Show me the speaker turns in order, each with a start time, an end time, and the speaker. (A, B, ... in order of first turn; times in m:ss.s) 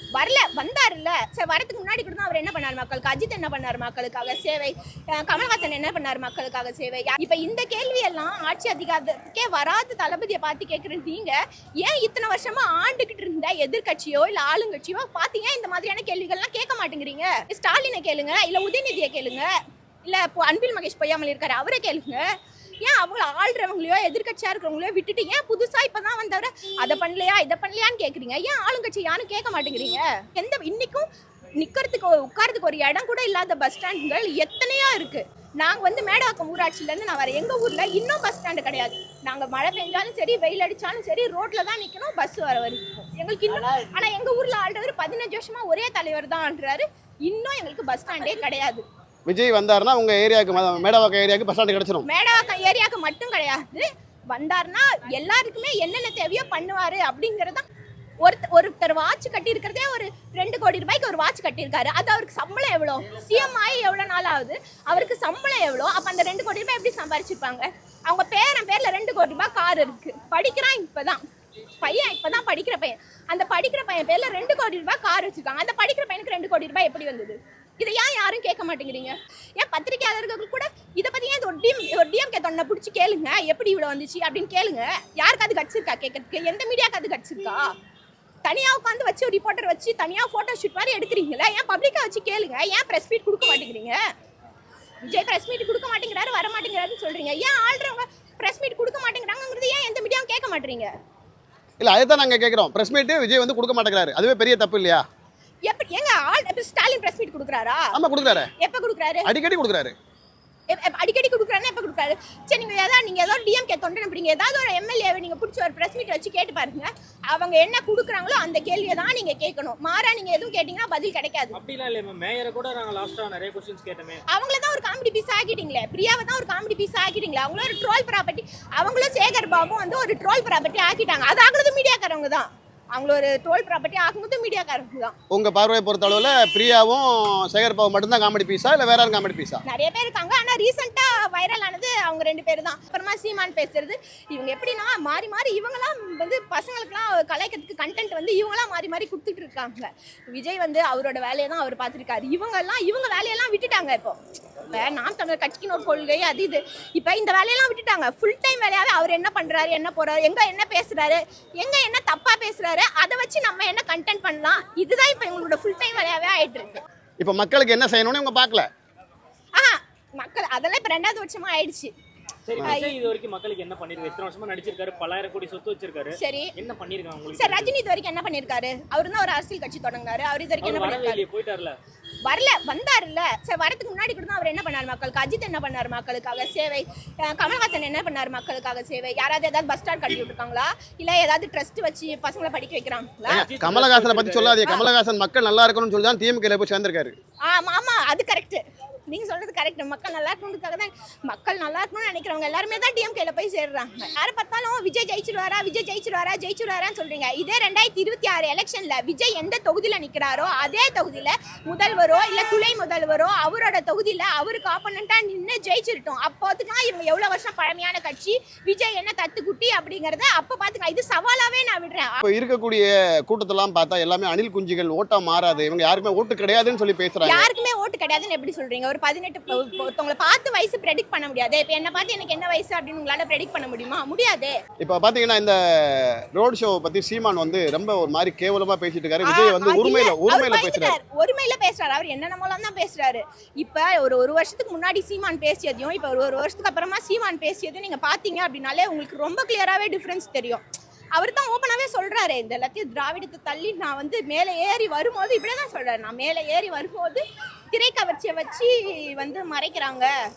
0:00.1-0:19.5 A
0:20.0-0:22.3 A
0:22.8-0:31.1 A
0:31.6-0:48.8 A
0:49.3-0:52.1 B
0:52.0-0:57.6 A
0:58.2-1:11.2 A
1:11.8-1:27.7 A
1:28.4-1:34.0 A
1:35.0-1:40.9 A
1:41.8-1:45.0 B
1:45.7-1:47.9 A
1:47.9-1:48.5 B
1:48.6-1:49.3 A
1:49.2-1:50.0 B
1:50.7-2:01.6 A
2:01.5-2:04.2 C
2:04.3-2:15.1 A
2:15.3-2:19.6 B
2:19.7-2:46.8 A
2:47.2-2:48.7 B
2:49.6-2:51.9 A
2:52.5-2:57.7 C
2:52.6-2:53.0 A
2:56.2-2:56.5 A
2:57.3-3:01.3 A
3:00.6-3:01.8 C
3:02.2-3:13.5 A
3:13.3-3:14.6 C
3:13.3-3:17.2 B
3:17.5-3:42.2 A
3:42.2-3:47.5 B
3:47.2-3:54.6 A
3:54.8-4:01.0 B
3:59.2-4:10.6 A
4:11.2-4:20.1 A